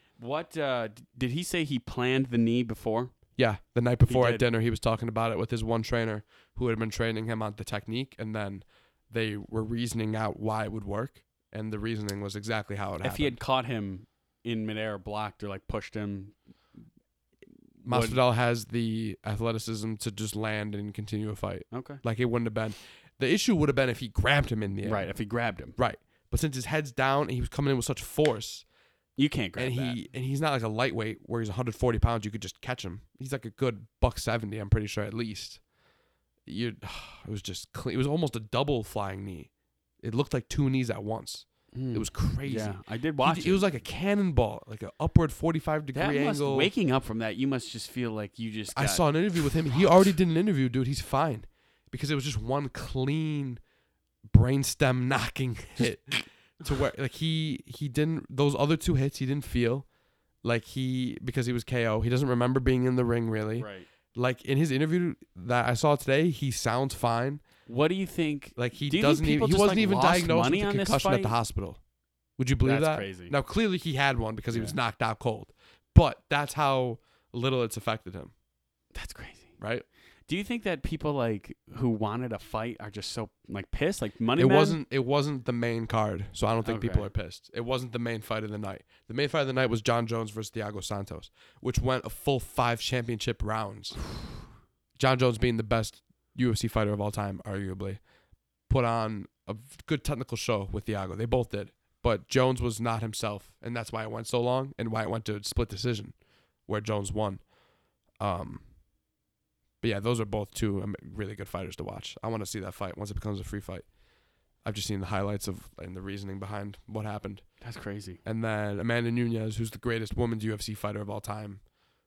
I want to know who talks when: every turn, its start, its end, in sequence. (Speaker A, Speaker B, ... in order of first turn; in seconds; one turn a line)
Speaker A: 0.2-3.1
Speaker B: 3.4-13.4
Speaker A: 4.0-4.4
Speaker A: 13.0-16.4
Speaker A: 17.8-18.2
Speaker B: 17.8-25.1
Speaker A: 21.7-22.0
Speaker A: 24.8-25.8
Speaker B: 25.8-28.6
Speaker A: 29.2-30.0
Speaker B: 29.6-35.6
Speaker B: 36.5-39.5
Speaker B: 40.0-46.7
Speaker A: 41.7-43.7
Speaker A: 45.9-49.1
Speaker B: 48.7-53.6
Speaker B: 54.3-59.9
Speaker B: 60.4-67.4
Speaker A: 63.5-63.9
Speaker A: 67.7-71.3
Speaker B: 68.5-71.8
Speaker B: 72.4-78.3
Speaker A: 72.6-73.3
Speaker A: 74.5-74.8
Speaker A: 78.9-79.6
Speaker B: 79.6-79.8
Speaker A: 80.3-84.8
Speaker B: 84.4-94.0
Speaker A: 86.6-87.1
Speaker B: 95.0-98.0
Speaker B: 98.7-106.1
Speaker B: 106.7-107.4
Speaker B: 108.2-108.6
Speaker B: 109.8-113.8
Speaker B: 114.6-117.4
Speaker A: 117.6-118.2
Speaker B: 118.2-121.6